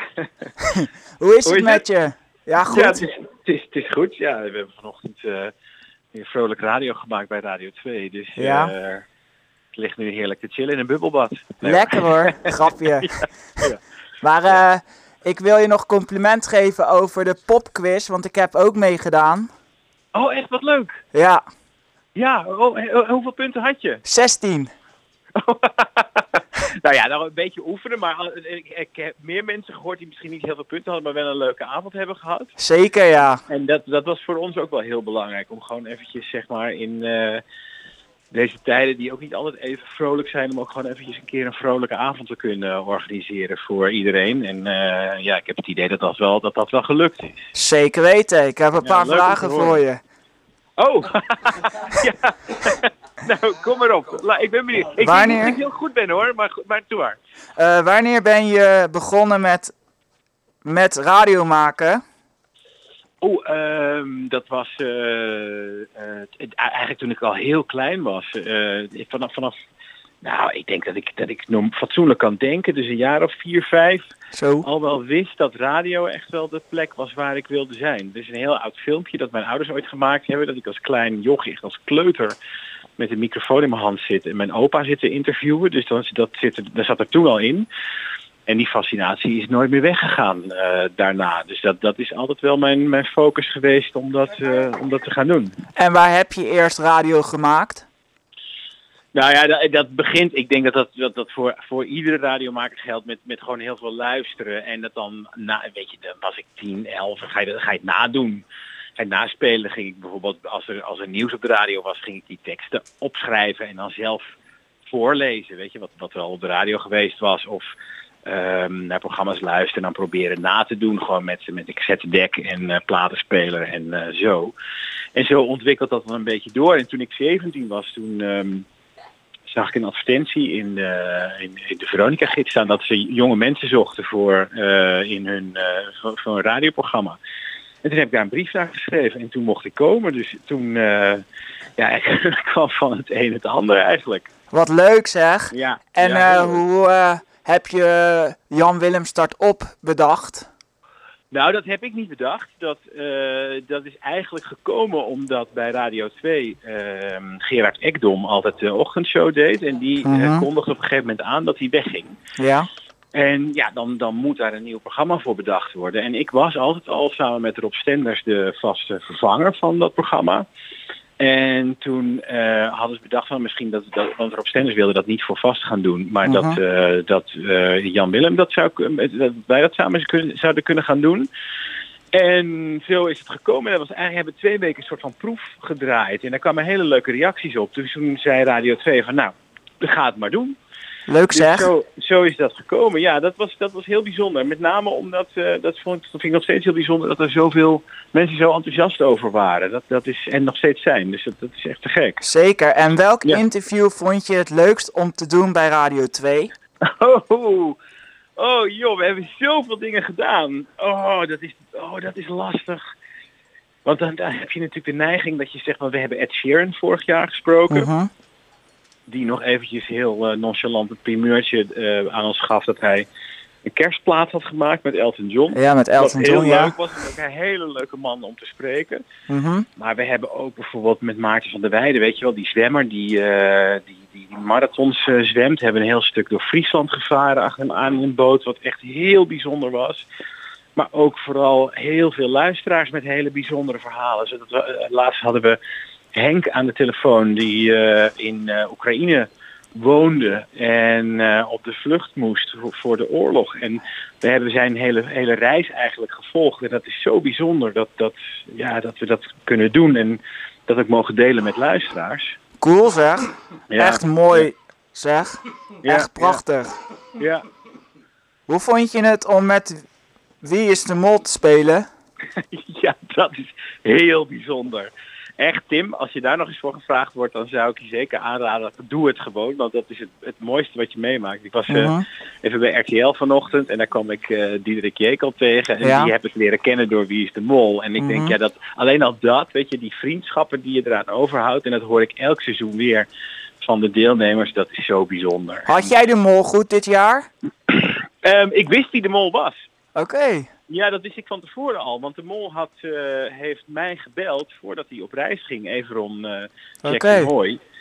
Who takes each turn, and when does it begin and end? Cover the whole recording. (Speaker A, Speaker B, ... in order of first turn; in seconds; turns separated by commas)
Speaker A: 0.2-0.5, Speaker B: 0.6-3.0, Speaker A: 1.5-1.9, Speaker A: 2.6-5.5, Speaker A: 6.1-9.0, Speaker B: 8.4-8.7, Speaker A: 9.7-13.8, Speaker B: 11.6-13.7, Speaker B: 14.2-19.5, Speaker A: 20.1-21.0, Speaker B: 21.1-21.4, Speaker A: 22.1-24.0, Speaker B: 24.1-24.7, Speaker A: 25.4-32.5, Speaker B: 32.6-33.4, Speaker A: 33.5-37.4, Speaker A: 38.3-47.5, Speaker B: 47.5-50.0, Speaker A: 48.8-49.8, Speaker A: 50.8-57.2, Speaker B: 55.0-55.5, Speaker B: 57.6-59.7, Speaker B: 60.6-62.0, Speaker A: 63.2-69.5, Speaker A: 70.2-74.1, Speaker B: 74.3-74.7, Speaker A: 74.6-82.4, Speaker A: 83.0-87.7, Speaker A: 88.5-95.5, Speaker B: 95.8-97.9, Speaker A: 99.1-108.5, Speaker A: 109.0-114.3, Speaker A: 114.9-117.7, Speaker A: 118.3-124.5, Speaker A: 125.1-128.7, Speaker A: 129.5-137.2, Speaker A: 137.8-141.2, Speaker A: 141.8-144.3, Speaker B: 144.5-150.5, Speaker A: 145.5-146.6, Speaker A: 151.3-162.2, Speaker B: 160.1-160.5, Speaker B: 162.4-162.7, Speaker A: 163.1-170.5, Speaker A: 171.2-181.3, Speaker B: 176.3-176.6, Speaker A: 182.1-190.6, Speaker B: 191.1-191.7, Speaker A: 191.3-202.2, Speaker B: 202.2-206.5, Speaker A: 206.9-207.8, Speaker A: 208.4-212.8, Speaker A: 213.8-217.9, Speaker B: 217.7-218.1, Speaker A: 219.1-223.1, Speaker A: 223.7-229.0, Speaker B: 225.5-226.7, Speaker B: 229.3-229.7, Speaker A: 229.8-240.1, Speaker A: 240.8-245.6, Speaker A: 246.1-262.4, Speaker B: 262.6-266.8, Speaker A: 263.7-264.5, Speaker A: 265.8-266.4, Speaker A: 267.2-267.4, Speaker B: 268.5-269.8, Speaker B: 270.4-271.9, Speaker A: 272.5-293.1, Speaker B: 281.7-282.0, Speaker B: 285.8-286.1, Speaker B: 288.0-288.3, Speaker A: 293.6-295.9, Speaker B: 295.7-297.3, Speaker A: 297.7-299.6, Speaker B: 299.9-300.5, Speaker A: 300.7-307.6, Speaker B: 306.8-307.3